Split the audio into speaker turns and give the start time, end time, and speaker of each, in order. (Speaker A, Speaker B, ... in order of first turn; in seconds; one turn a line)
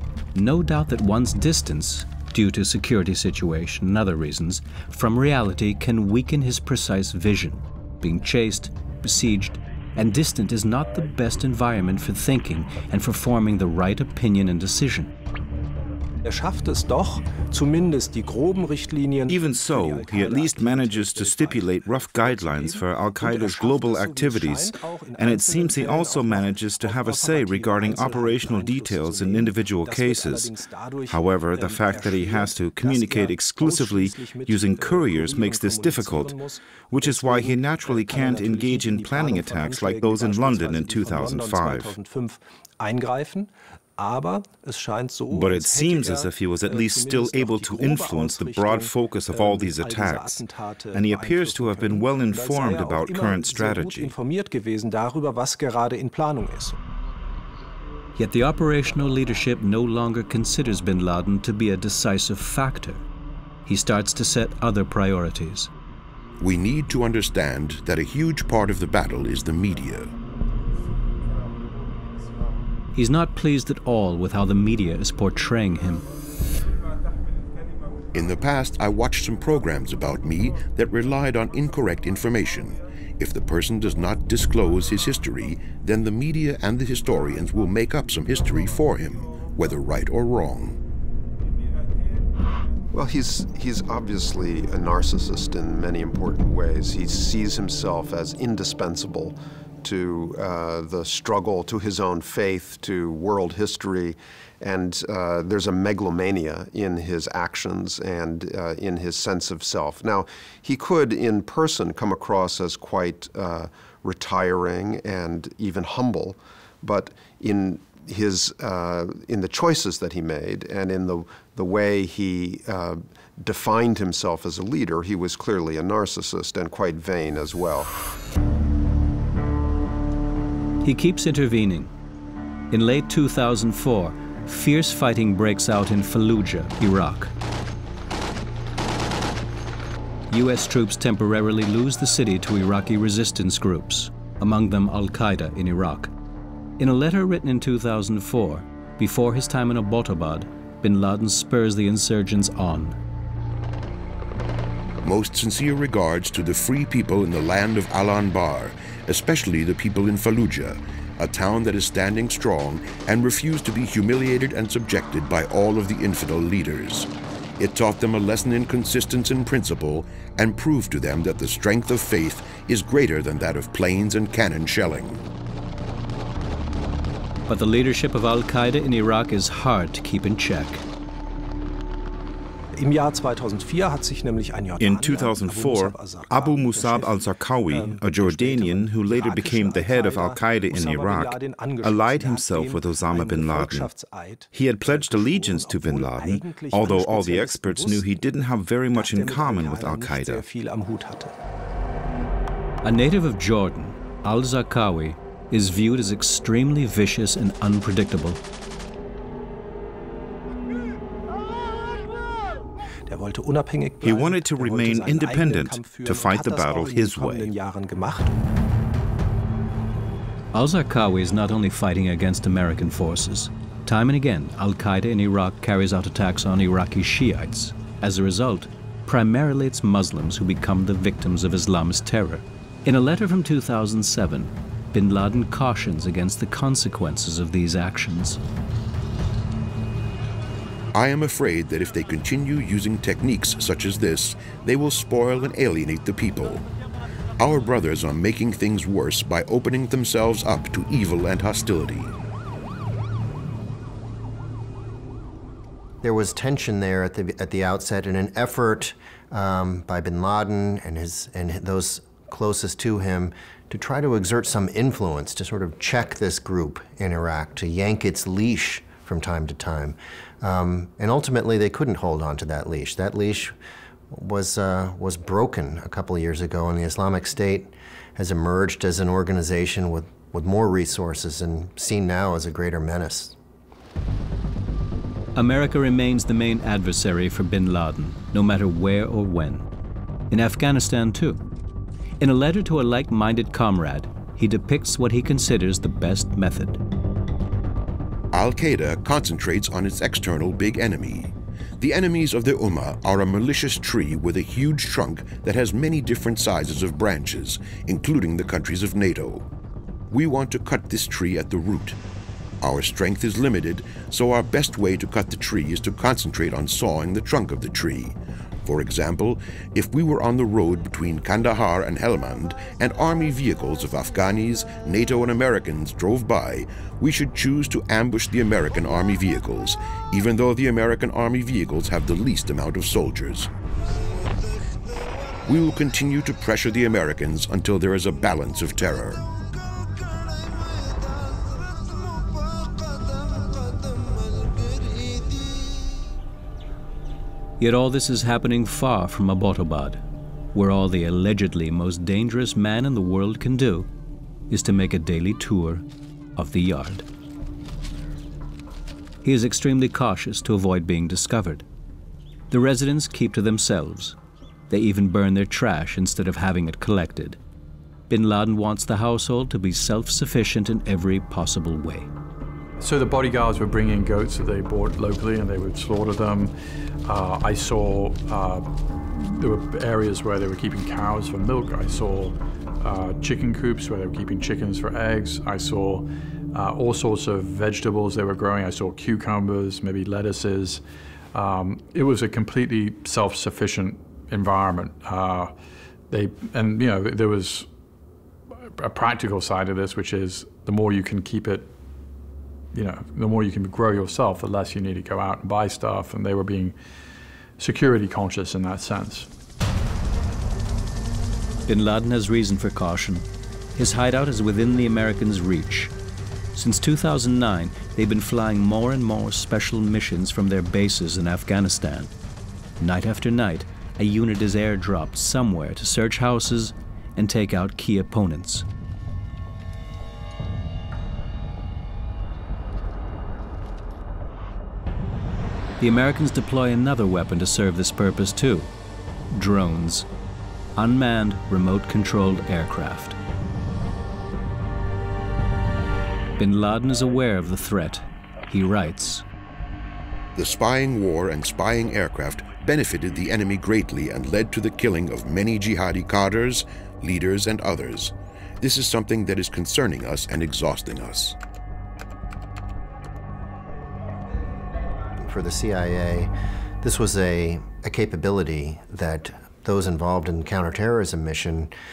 Speaker A: 0.3-15.1
Speaker B: 16.2-56.8
Speaker C: 19.3-30.5
Speaker C: 31.1-36.4
Speaker C: 36.9-41.9
Speaker C: 45.3-50.4
Speaker C: 50.9-54.1
Speaker A: 58.1-63.0
Speaker A: 63.6-65.7
Speaker D: 66.4-70.1
Speaker A: 72.9-76.0
Speaker D: 78.1-90.8
Speaker E: 92.9-127.9
Speaker A: 130.8-131.9
Speaker A: 132.7-137.3
Speaker A: 140.3-146.1
Speaker A: 146.8-153.0
Speaker D: 155.0-175.2
Speaker A: 177.5-180.8
Speaker B: 182.8-198.1
Speaker C: 184.8-193.9
Speaker C: 194.5-200.4
Speaker B: 198.9-201.3
Speaker A: 202.8-208.4
Speaker B: 213.1-218.3
Speaker C: 214.0-217.5
Speaker A: 220.5-238.4
Speaker D: 240.9-246.6
Speaker D: 247.4-252.1
Speaker F: 256.0-273.5
Speaker F: 274.1-283.3
Speaker A: 285.3-289.6
Speaker A: 290.3-291.4
Speaker A: 292.2-296.8
Speaker D: 298.3-309.4
Speaker D: 310.1-312.0
Speaker D: 312.6-333.5
Speaker D: 335.5-339.2
Speaker A: 347.6-350.0
Speaker A: 350.5-353.9
Speaker A: 354.5-355.8
Speaker A: 356.4-357.0
Speaker A: 359.2-361.6
Speaker A: 362.5-364.1
Speaker A: 364.7-367.4
Speaker A: 368.1-372.1
Speaker G: 372.8-376.5
Speaker G: 377.0-390.8
Speaker G: 391.3-395.5
Speaker G: 396.1-397.7
Speaker G: 398.6-401.7
Speaker G: 402.7-406.8
Speaker G: 407.6-409.3
Speaker A: 411.7-415.9
Speaker A: 416.5-422.1
Speaker A: 422.8-428.6
Speaker A: 435.8-438.7
Speaker A: 439.3-440.1
Speaker A: 440.8-443.2
Speaker A: 446.4-449.2
Speaker D: 450.4-461.4
Speaker F: 465.2-471.7